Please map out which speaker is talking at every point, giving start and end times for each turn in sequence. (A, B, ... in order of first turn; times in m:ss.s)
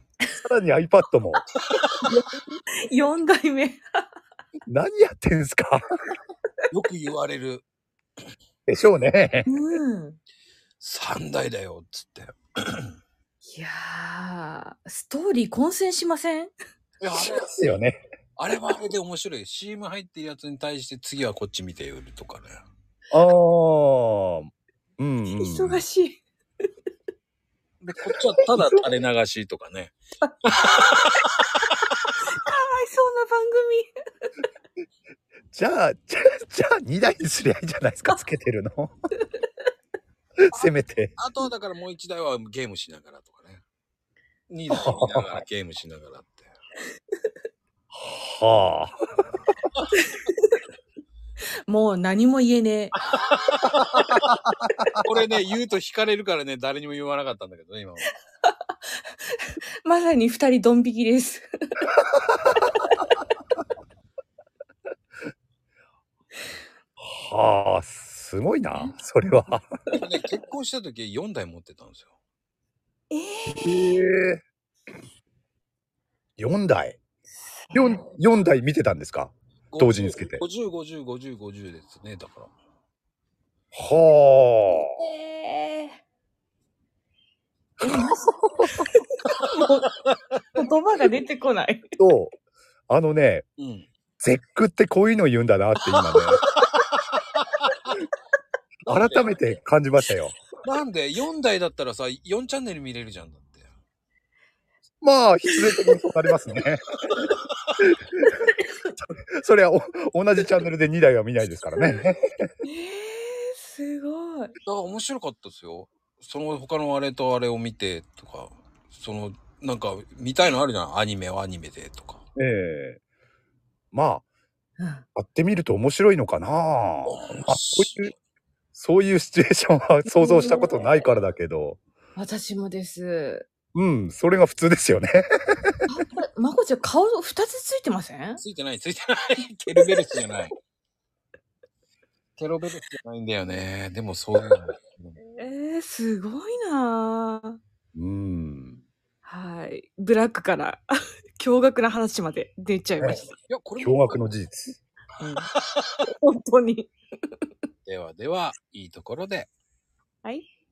0:00.4-0:01.4 A
0:02.0-0:02.4 B
0:02.9-0:03.8 B
0:04.7-0:05.8 A
0:06.7-0:07.6 C
0:08.7-0:09.5 A
0:09.4-0:10.2 B
0:10.8-0:12.9 C
0:13.5-0:16.5 B
0:17.0-0:17.5 C
0:17.1-0:18.0 A
0:18.4-0:22.6 C
0:23.1-0:25.8 A
0:25.2-0:26.2 B
0:27.8-0:30.0 C
0:28.5-0:28.8 A
0:30.3-0:31.2 B
0:30.5-0:31.4 C
0:32.2-0:33.9 B
0:35.5-0:38.9 A
0:40.4-0:41.1 A
0:40.5-0:43.6 C
0:44.5-0:46.5 C
0:44.7-0:45.4 A
0:47.9-0:49.0 A
0:50.0-0:50.6 B
0:51.7-0:52.9 B
0:53.1-0:54.2 C
0:54.0-0:55.3 A
0:55.0-0:58.1 C
0:59.3-1:01.8 B
1:01.9-1:02.7 A
1:07.0-1:09.6 A
1:08.6-1:10.0 B
1:09.9-1:12.1 C
1:13.1-1:14.0 B
1:13.6-1:14.4 A
1:16.4-1:17.0 A
1:17.6-1:18.0 B
1:17.7-1:20.4 A
1:19.7-1:22.5 C
1:23.7-1:24.9 A
1:24.8-1:26.0 B
1:27.8-1:28.8 A
1:27.8-1:29.9 B
1:30.0-1:30.6 C
1:30.5-1:31.9 B
1:32.0-1:32.3 A
1:32.9-1:33.4 A
1:33.6-1:33.9 C
1:34.2-1:36.4 A
1:36.2-1:36.5 B
1:36.4-1:37.8 C
1:38.8-1:40.4 A
1:38.9-1:39.4 C
1:40.6-1:43.7 C
1:45.0-1:47.0 A
1:47.8-1:48.3 A
1:49.3-1:52.5 A
1:52.6-1:54.5 B
1:54.6-2:02.2 C
2:02.4-2:03.0 A
2:03.9-2:04.2 A
2:04.8-2:05.0 B
2:05.2-2:08.1 A
2:07.1-2:08.1 C
2:08.7-2:11.8 A
2:10.1-2:10.8 B
2:12.2-2:13.4 B
2:13.7-2:15.8 A
2:15.9-2:18.4 B
2:18.4-2:20.5 C
2:22.4-2:25.2 C
2:25.2-2:27.6 B
2:27.9-2:28.8 A
2:29.2-2:33.3 B
2:33.5-2:34.2 C
2:33.8-2:34.8 A
2:35.2-2:35.5 B
2:36.0-2:36.9 B
2:37.8-2:39.5 C